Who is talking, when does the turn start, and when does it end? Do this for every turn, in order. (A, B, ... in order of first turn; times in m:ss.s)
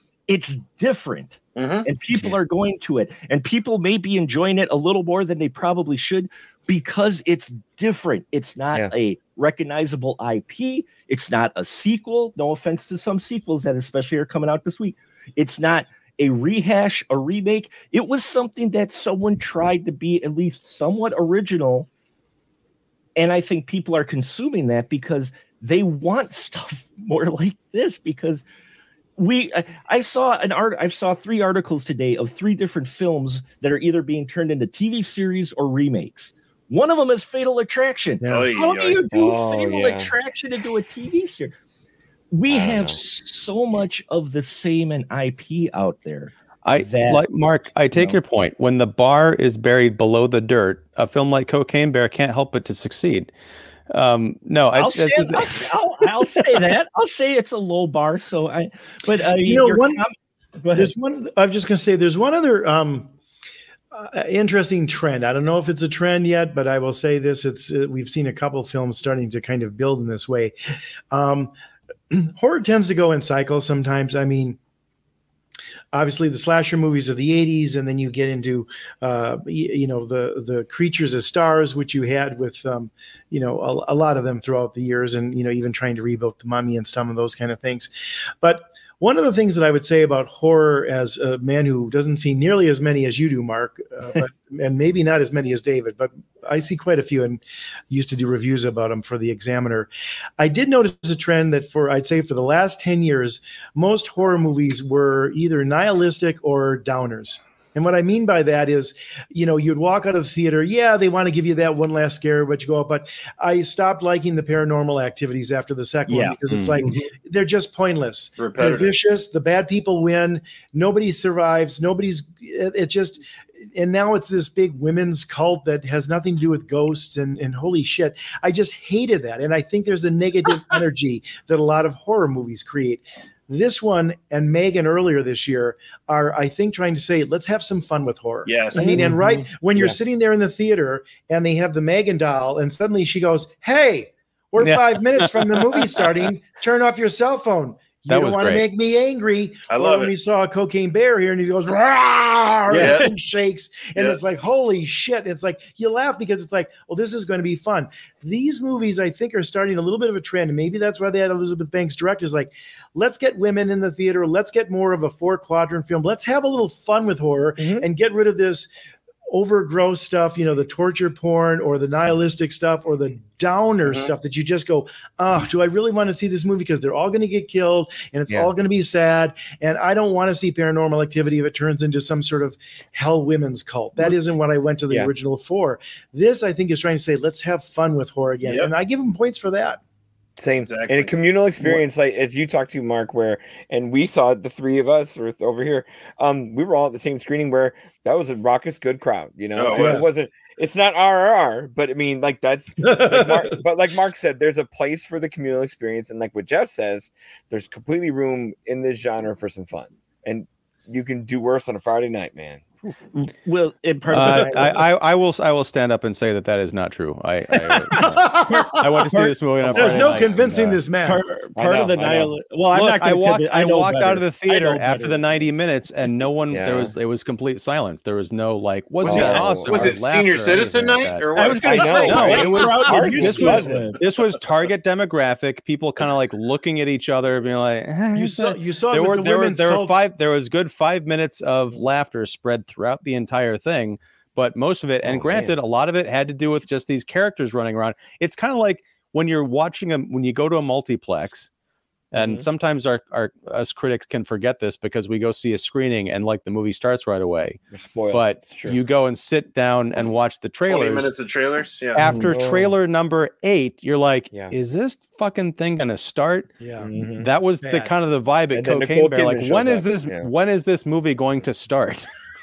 0:00.3-0:21.9 A
0:01.6-0:01.9 B
0:23.2-0:28.4 A
0:29.2-0:41.5 A
0:38.2-0:38.5 C
0:38.3-0:39.0 B
0:39.1-0:40.1 D
0:42.3-0:47.2 A
0:42.5-0:43.0 D
0:46.6-0:53.3 E
0:47.9-0:48.2 A
0:53.9-0:55.7 E
0:54.7-1:00.9 A
0:59.4-1:00.0 C
1:00.7-1:03.1 C
1:03.9-1:10.5 C
1:11.1-1:11.5 C
1:12.1-1:14.6 C
1:15.9-1:27.9 C
1:28.4-2:48.7 C
1:56.1-1:57.1 A
1:56.5-1:56.8 D
1:58.4-1:58.9 B
2:18.4-2:18.9 B
2:18.8-2:19.4 A
2:24.6-2:25.4 E
2:28.1-2:28.6 E
2:29.7-2:30.1 B
2:32.7-2:33.1 B
2:32.7-2:33.1 A
2:47.6-2:47.8 D
2:49.3-3:09.8 C
3:08.4-3:08.7 B
3:10.4-3:32.6 D
3:10.6-3:11.1 B
3:19.6-3:20.1 B
3:19.7-3:20.1 C
3:22.8-3:23.6 C
3:33.1-3:34.8 A
3:34.1-3:40.8 E
3:37.7-3:40.2 A
3:38.0-3:38.9 C
3:39.7-3:41.2 C
3:41.0-3:45.3 A
3:41.6-3:42.4 D
3:42.7-4:11.5 E
3:46.5-3:46.9 D
3:49.0-3:50.0 D
3:49.1-3:49.4 A
3:49.1-3:52.9 B
3:51.3-3:54.0 A
3:51.6-3:53.9 D
3:53.0-3:53.7 C
3:58.1-4:00.0 C
4:05.0-4:05.6 D
4:12.1-4:21.1 E
4:12.2-4:12.4 D
4:17.7-4:18.8 D
4:20.6-4:22.1 B
4:21.9-4:26.5 E
4:22.0-4:22.3 A
4:22.2-4:22.7 D
4:26.6-4:26.9 C
4:26.8-4:27.3 D
4:27.2-4:32.1 E
4:27.6-4:27.9 C
4:28.5-4:30.3 D